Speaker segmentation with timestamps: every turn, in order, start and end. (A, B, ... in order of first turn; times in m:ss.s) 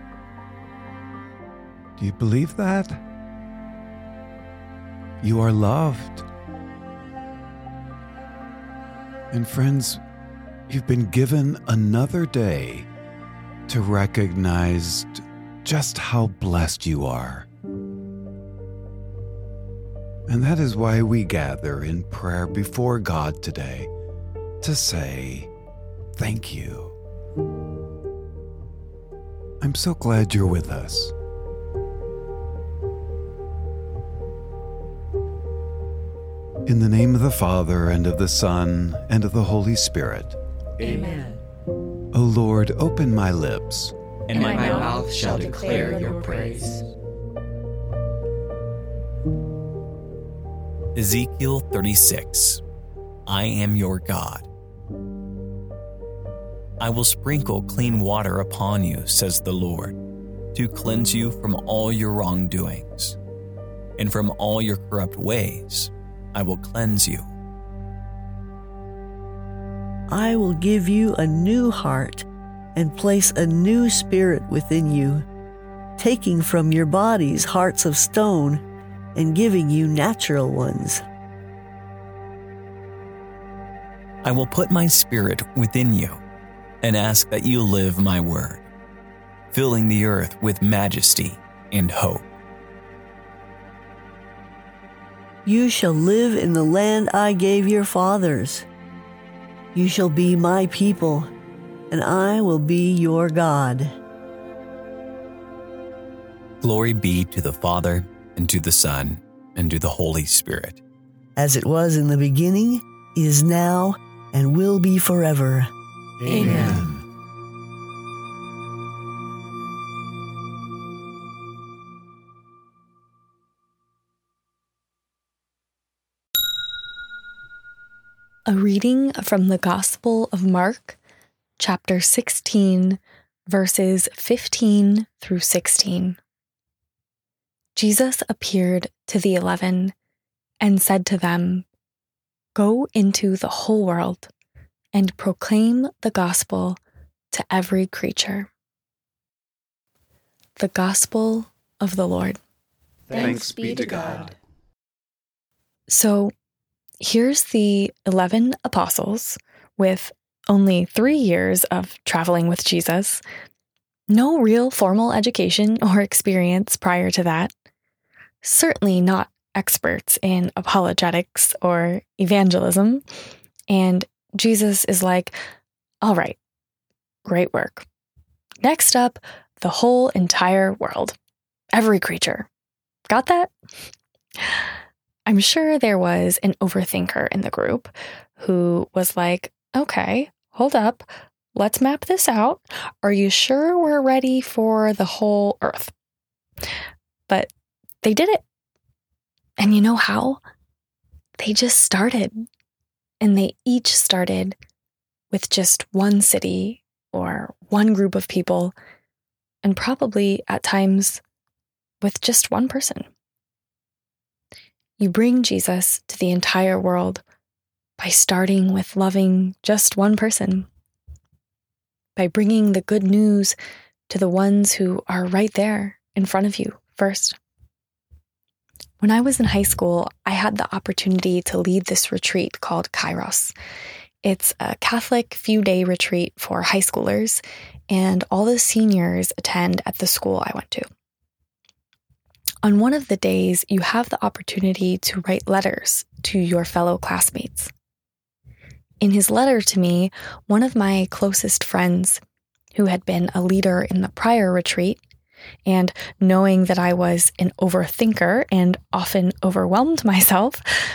0:02.0-0:03.0 A
0:05.2-0:06.3 A
0:09.3-0:10.0 A
0:10.7-0:12.9 A
0:13.7-0:17.5 A
0:20.3-0:23.9 A
0:24.6-0:25.5 A
0:26.2-0:26.9 A
0:29.6-0:31.1 A
0:36.6-0:40.4 A
0:40.8-0:41.4 B
0:42.1-0:43.9 A
0:44.3-0:46.6 C
0:44.4-0:46.8 B
0:50.9-0:52.6 C
0:53.3-0:54.5 C
0:56.8-1:00.0 C
1:00.5-1:03.2 C
1:04.0-1:07.3 C
1:10.1-1:15.2 D
1:16.0-1:18.6 D
1:19.1-1:21.0 D
1:24.2-1:26.2 C
1:26.8-1:28.6 C
1:29.5-1:32.2 C
1:35.4-1:38.6 D
1:39.7-1:41.3 D
1:41.9-1:44.0 D
1:46.6-1:50.8 C
1:51.4-1:55.7 D
1:56.2-1:57.0 A
1:56.3-1:56.8 B
2:08.5-2:11.0 E
2:11.6-2:16.2 E
2:17.8-2:19.9 E
2:20.6-2:21.6 E
2:22.5-2:24.3 E
2:24.9-2:26.8 E
2:27.3-2:28.5 E
2:30.6-2:32.4 E
2:33.1-2:34.3 A
2:33.1-2:34.3 E
2:35.9-2:36.3 E
2:37.0-2:43.2 E
2:44.1-2:47.5 E
2:48.4-2:53.0 E
2:53.7-2:55.3 E
2:56.0-2:56.4 E
2:57.2-2:57.8 E
2:58.6-3:01.2 E
3:01.7-3:02.5 E
3:03.1-3:03.5 E
3:05.3-3:15.9 E
3:18.0-3:18.4 E
3:19.6-3:20.4 E
3:21.4-3:22.3 E
3:23.2-3:24.6 E
3:25.3-3:28.8 E
3:29.6-3:31.2 E
3:32.0-3:33.1 E
3:35.0-3:37.2 E
3:38.0-3:40.7 E
3:42.2-3:43.6 E
3:44.1-3:47.4 E
3:49.0-3:53.5 E
3:54.2-4:00.8 E
4:02.6-4:07.7 E
4:09.0-4:12.2 E
4:12.7-4:15.0 E
4:15.6-4:20.6 E